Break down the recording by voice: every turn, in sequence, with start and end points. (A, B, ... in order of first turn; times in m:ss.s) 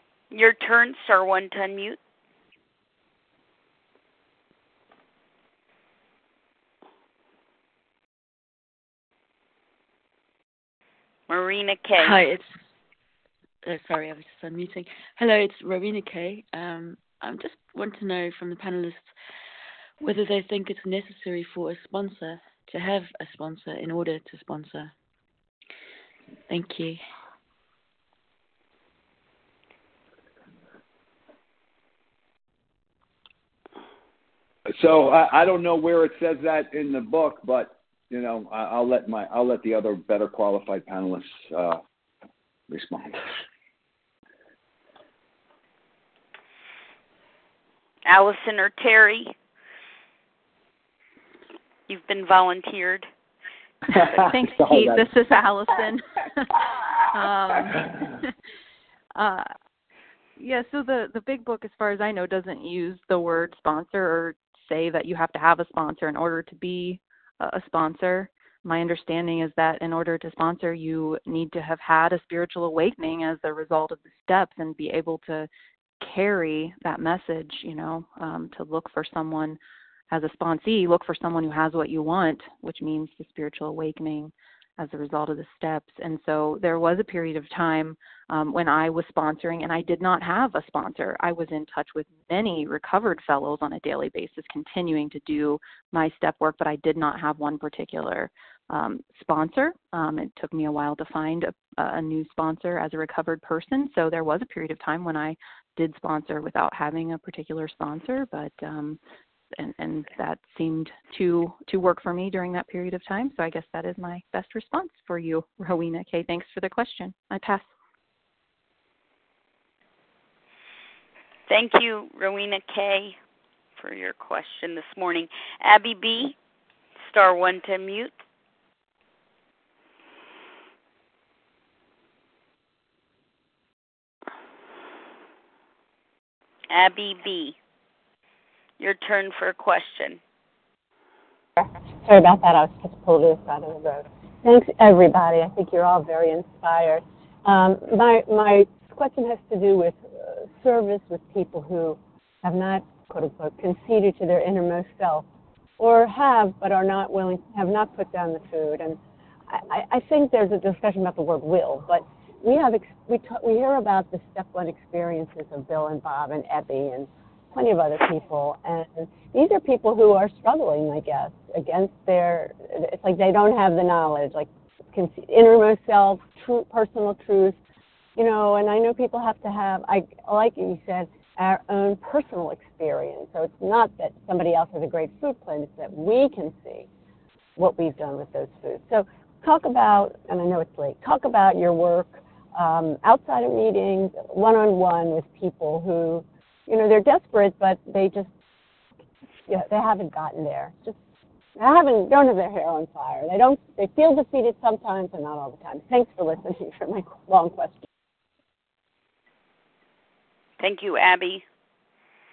0:00.3-0:02.0 A
0:11.3-0:12.2 A
0:12.0-0:12.5 B
0:13.6-0:19.1 B
0:20.0-0:24.9 B
0:26.5-0:27.0 B
0:34.8-0:41.8 C
0:42.7-0:43.2 C
0:48.0-0:49.3 A
0:51.9-0:53.1 A
0:53.9-0:58.3 D
0:53.9-0:55.0 C
0:59.2-0:59.5 D
1:00.4-1:15.5 D
1:16.0-1:19.6 D
1:20.1-1:49.0 D
1:49.6-1:57.7 D
2:01.5-2:03.2 A
2:03.8-2:06.4 A
2:07.0-2:08.1 A
2:16.7-2:17.6 A
2:18.8-2:20.2 A
2:21.6-2:35.3 E
2:35.8-2:39.0 E
2:39.5-2:57.6 E
2:58.2-3:06.9 E
3:07.6-3:18.3 E
3:19.5-3:21.0 E
3:21.6-3:27.8 E
3:30.6-3:31.4 A